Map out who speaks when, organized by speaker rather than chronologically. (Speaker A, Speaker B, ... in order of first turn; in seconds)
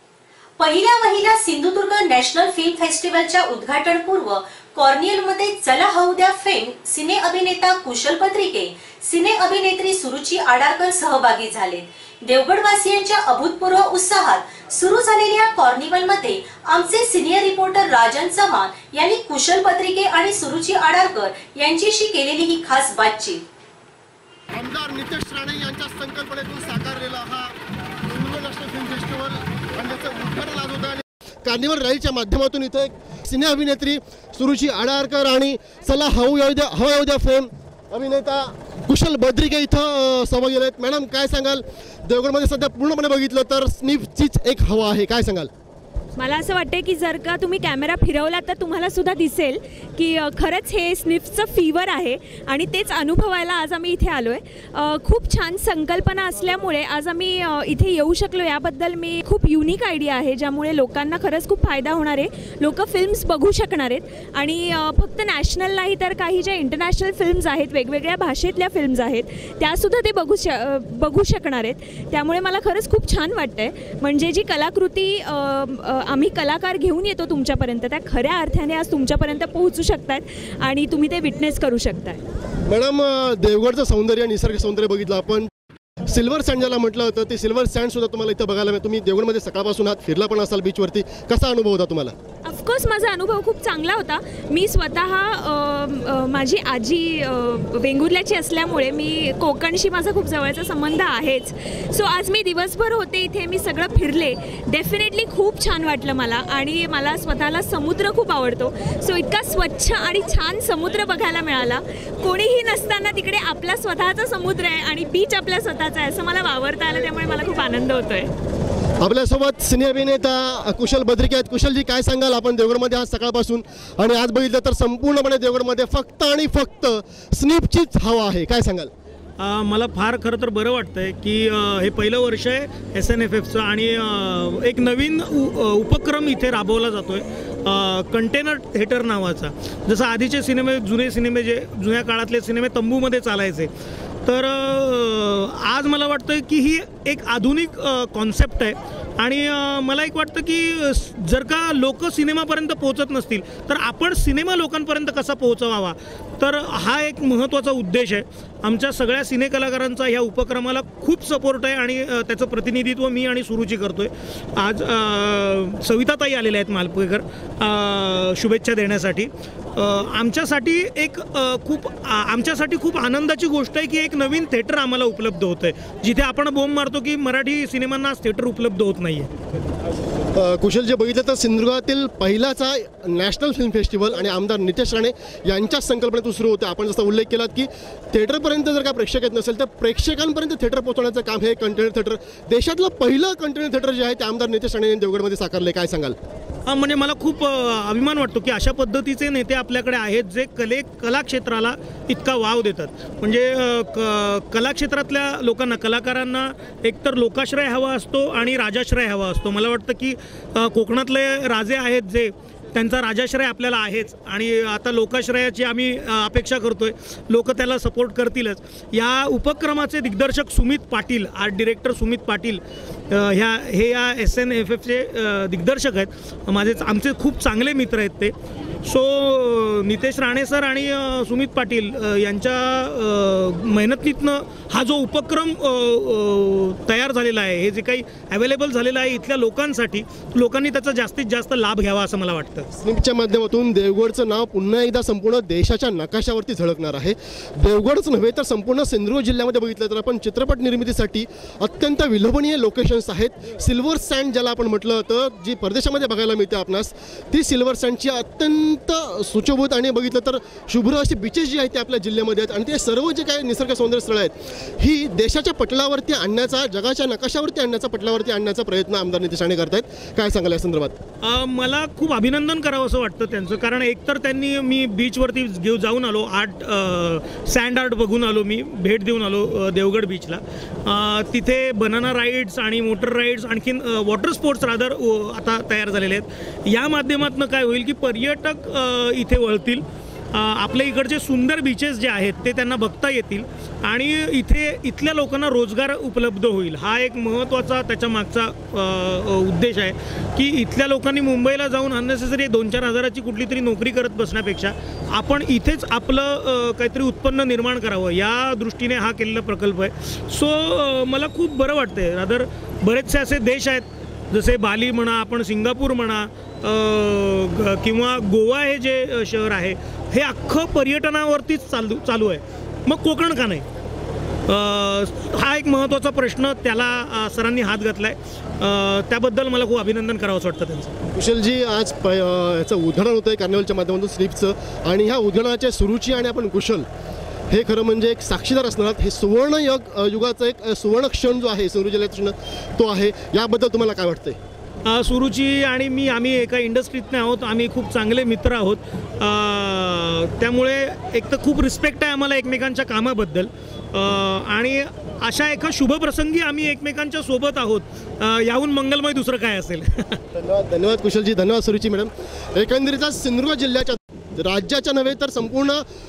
Speaker A: 0.6-23.4
Speaker B: 24.5-45.5, 82.7-85.5, 86.1-92.1, 119.0-128.9, 180.3-196.2, 242.7-271.0, 331.1-336.9, 337.5-344.4, 360.3-365.8
Speaker C: 46.2-82.2, 92.4-118.3
Speaker D: 129.4-143.7, 144.2-179.3, 196.7-242.7, 271.2-323.6, 324.5-330.9, 344.8-360.2